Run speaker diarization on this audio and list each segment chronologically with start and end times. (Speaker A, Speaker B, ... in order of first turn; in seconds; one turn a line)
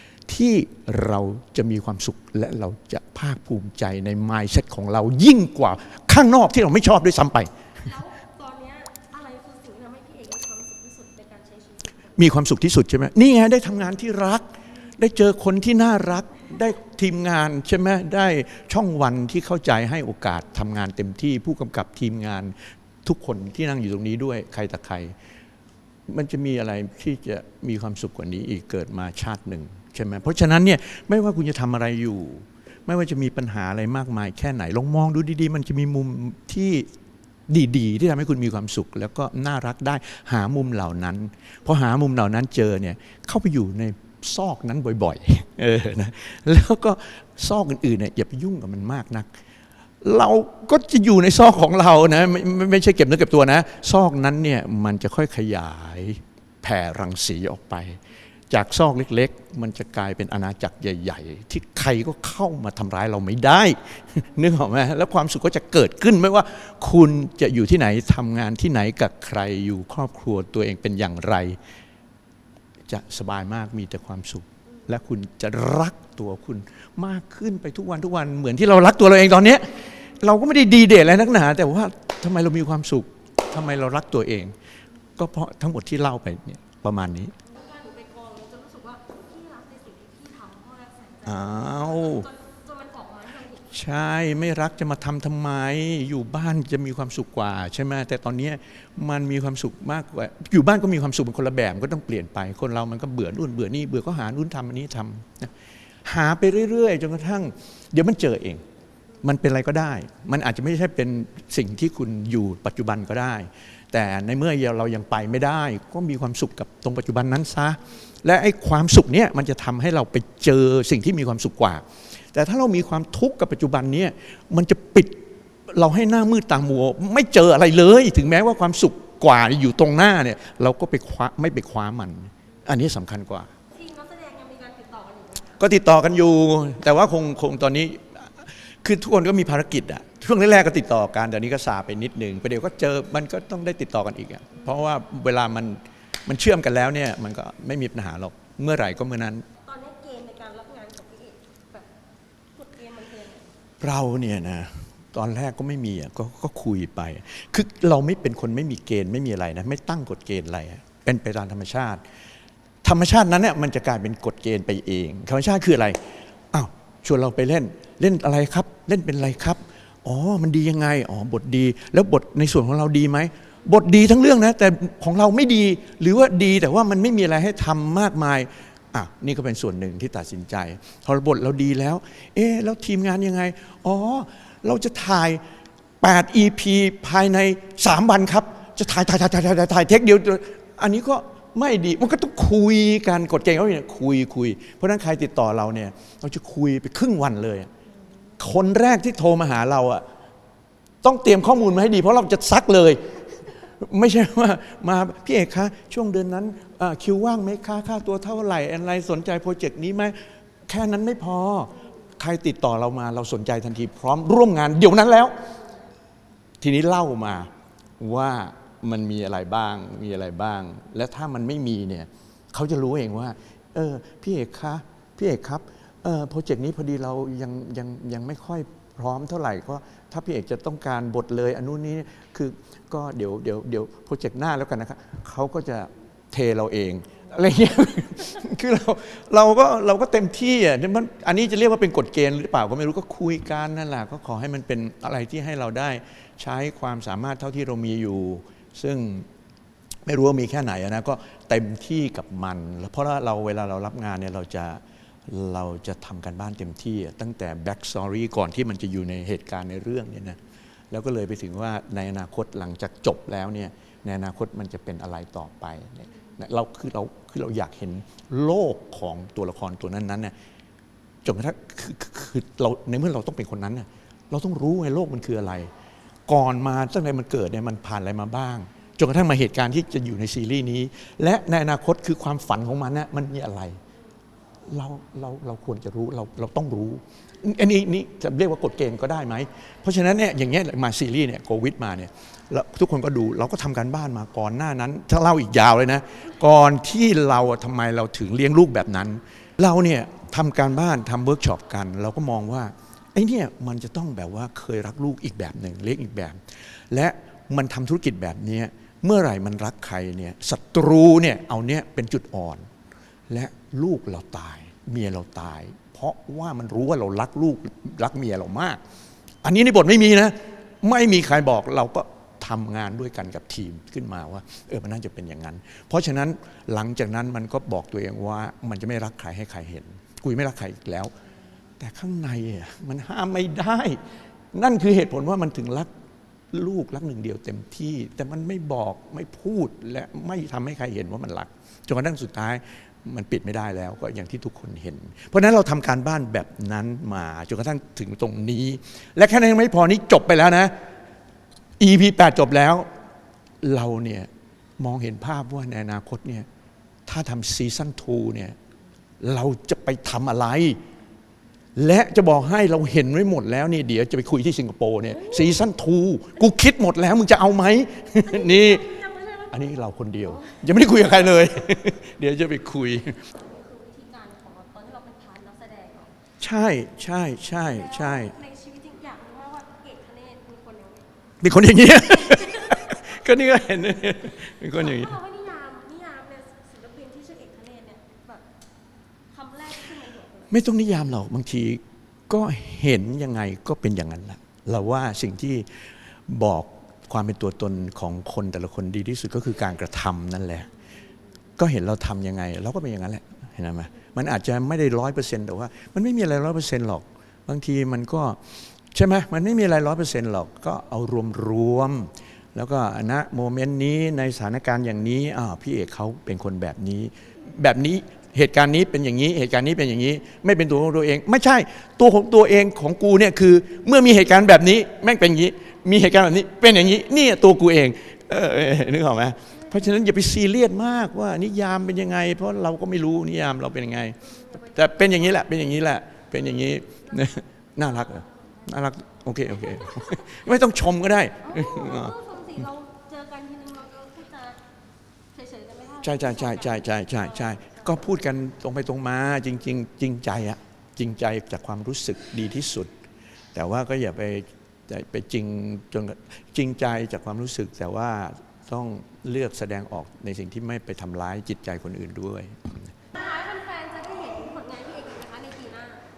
Speaker A: 0.3-7.9
Speaker B: 7.8-12.2
Speaker A: 12.2-14.4
Speaker A: 15.0-25.1
Speaker A: 26.1-36.9
Speaker A: 37.5-49.3
Speaker A: 50.0-71.6
Speaker A: 72.9-84.5
Speaker A: 85.2-87.3
Speaker B: 87.5-93.7
Speaker A: 91.2-92.3
Speaker A: 93.7-105.5
Speaker A: 106.0-108.6
Speaker A: 109.2-133.5
Speaker B: 133.7-135.6
Speaker A: 135.6-149.4
Speaker B: 144.5-144.8
Speaker B: 149.6-151.9
Speaker B: 152.5-153.5
Speaker A: 153.8-162.0
Speaker A: 162.8-166.0
Speaker A: 166.5-185.4
Speaker A: 186.0-197.7
Speaker A: 198.4-200.0
Speaker A: 201.0-215.3
Speaker B: 211.7-212.2
Speaker B: 215.5-215.9
Speaker A: 216.6-249.3
Speaker A: 250.1-260.4
Speaker A: 260.9-270.3
Speaker A: 271.2-275.7
Speaker A: 276.3-283.8
Speaker A: 284.7-306.4
Speaker A: 306.9-312.6
Speaker A: 313.3-318.8
Speaker A: 319.4-331.1
Speaker A: 331.8-335.9
Speaker A: 336.5-350.7
Speaker A: 351.8-352.9
Speaker A: 353.6-356.5
Speaker A: 357.1-358.6
Speaker A: 359.2-360.8
Speaker A: 361.8-368.9
Speaker B: 368.2-371.6
Speaker A: 369.5-373.2
Speaker B: 373.1-376.1
Speaker A: 376.4-378.3
Speaker B: 377.5-381.1
Speaker A: 381.4-385.1
Speaker B: 382.0-383.1
Speaker B: 384.6-388.4
Speaker B: 389.3-390.6
Speaker A: 390.5-400.7
Speaker A: 401.6-442.1
Speaker B: 429.5-430.0
Speaker B: 434.2-435.6
Speaker B: 437.0-438.9
Speaker B: 439.5-440.3
Speaker B: 441.4-444.6
Speaker B: 445.3-447.9
Speaker A: 446.0-452.9
Speaker A: 453.5-462.9
Speaker B: 463.1-466.0